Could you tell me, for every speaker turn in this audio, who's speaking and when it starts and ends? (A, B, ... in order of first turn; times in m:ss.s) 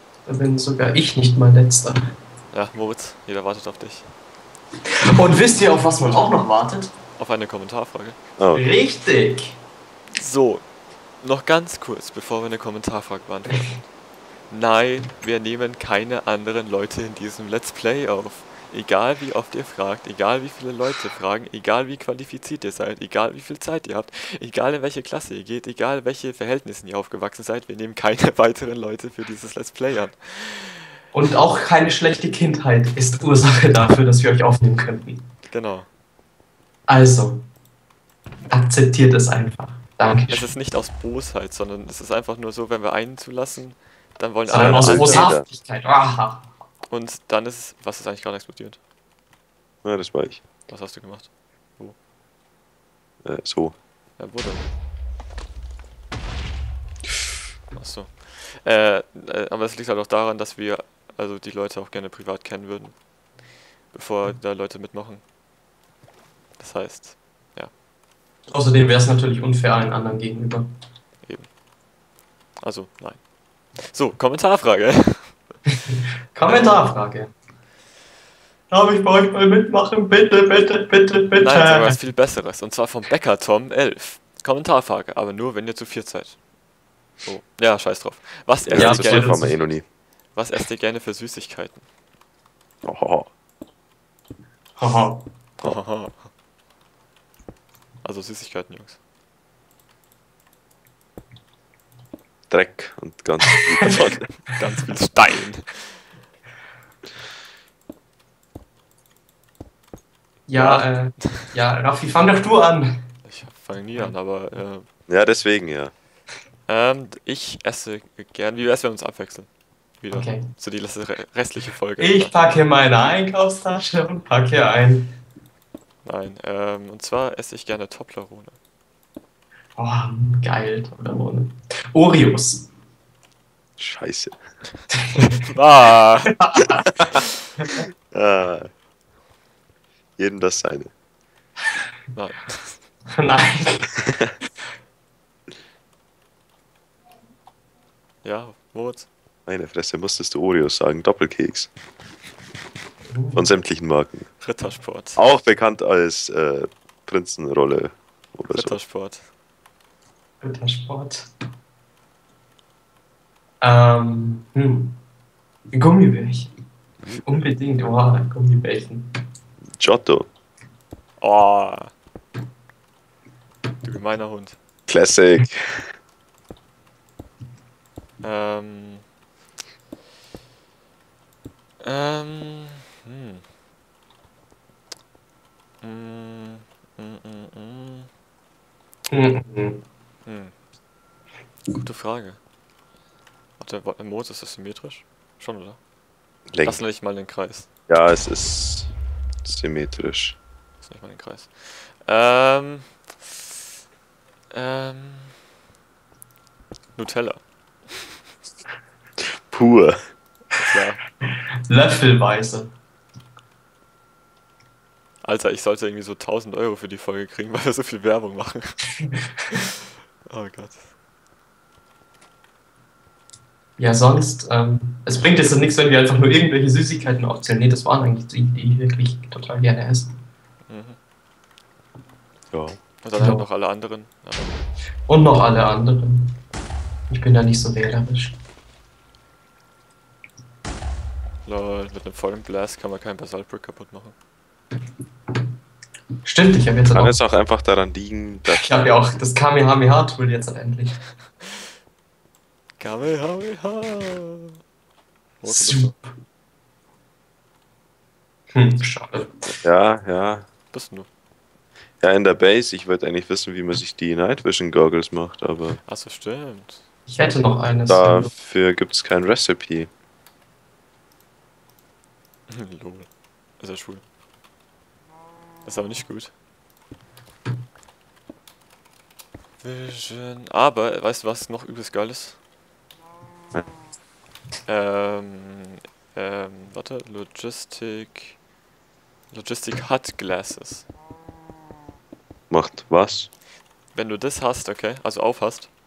0:00.2-0:02.0 A
0:02.5-0:04.1 B
0:05.1-0:06.9 A
0:07.2-0:08.2 B
0:08.4-0:08.6 C
0:08.5-0:09.6 A
0:10.1-0:13.7 B
0:14.5-0:30.9 B
0:31.1-0:35.2 A
0:35.5-0:35.9 B
0:36.9-0:37.4 A
0:38.5-0:40.6 A
0:40.1-0:45.3 B
0:44.5-0:46.5 A
0:44.5-0:45.4 C
0:46.9-0:48.8 B
0:49.8-0:50.4 C
0:50.6-0:51.9 B
0:53.2-0:53.7 C
0:54.2-0:54.6 B
0:57.7-1:03.0 B
1:03.9-1:05.2 B
1:06.6-1:07.7 B
1:08.5-1:10.7 A
1:11.2-1:11.5 B
1:12.6-1:15.5 B
1:16.3-1:17.3 A
1:16.4-1:16.9 B
1:18.7-1:21.9 A
1:21.4-1:26.5 B
1:27.2-1:29.8 B
1:28.6-1:29.9 C
1:28.8-1:29.5 A
1:30.3-1:31.8 B
1:32.8-1:33.3 C
1:34.8-1:35.3 A
1:35.6-1:36.3 B
1:38.0-1:39.0 B
1:42.5-1:44.4 C
1:44.5-1:46.0 B
1:50.5-1:53.0 A
1:50.5-1:51.5 B
1:53.2-1:54.9 B
1:55.1-1:55.9 C
1:56.6-2:02.3 B
2:00.1-2:00.5 A
2:02.0-2:05.1 A
2:06.0-2:08.6 B
2:09.8-2:12.7 A
2:13.8-2:14.4 C
2:15.5-2:16.4 B
2:16.4-2:16.8 A
2:18.1-2:18.7 C
2:20.2-2:20.9 C
2:22.1-2:22.8 B
2:23.2-2:24.0 A
2:28.2-2:29.1 B
2:29.4-2:31.7 C
2:33.1-2:33.4 A
2:33.3-2:34.4 C
2:34.4-2:35.2 B
2:35.1-2:38.8 C
2:38.5-2:39.3 B
2:40.4-2:41.3 A
2:43.6-2:45.0 A
2:45.7-2:46.5 A
2:47.2-2:49.1 A
2:49.8-2:50.3 C
2:51.2-2:51.9 B
2:53.8-2:54.6 B
2:54.9-2:55.9 C
2:58.2-2:59.0 B
3:01.8-3:03.4 B
3:05.8-3:08.1 B
3:09.1-3:09.8 A
3:10.2-3:10.5 B
3:11.7-3:12.4 B
3:13.6-3:15.8 B
3:16.5-3:16.8 C
3:16.6-3:17.7 B
3:17.9-3:18.9 C
3:19.4-3:20.4 C
3:20.8-3:23.3 B
3:24.5-3:25.4 B
3:26.9-3:28.0 B
3:29.5-3:30.0 C
3:30.6-3:31.0 B
3:31.7-3:32.7 A
3:35.2-3:38.9 B
3:40.3-3:40.9 B
3:43.8-3:50.1 A
3:50.6-3:51.0 B
3:52.5-3:52.8 C
3:53.0-3:54.6 B
3:53.2-3:53.4 A
3:55.1-3:56.4 A
3:57.1-3:58.4 A
4:01.4-4:04.1 B
4:06.2-4:07.2 A
4:06.9-4:08.9 C
4:08.6-4:11.1 A
4:12.8-4:14.6 B
4:15.4-4:15.9 B
4:15.4-4:16.1 A
4:18.5-4:19.3 A
4:19.5-4:20.5 C
4:20.7-4:21.1 B
4:22.0-4:25.8 C
4:25.8-4:26.8 B
4:27.1-4:28.3 A
4:27.9-4:29.9 C
4:32.5-4:34.0 B
4:35.6-4:36.3 B
4:39.6-4:42.4 B
4:44.6-4:48.4 B
4:49.3-4:50.9 B
4:52.5-4:53.3 C
4:53.9-4:55.7 B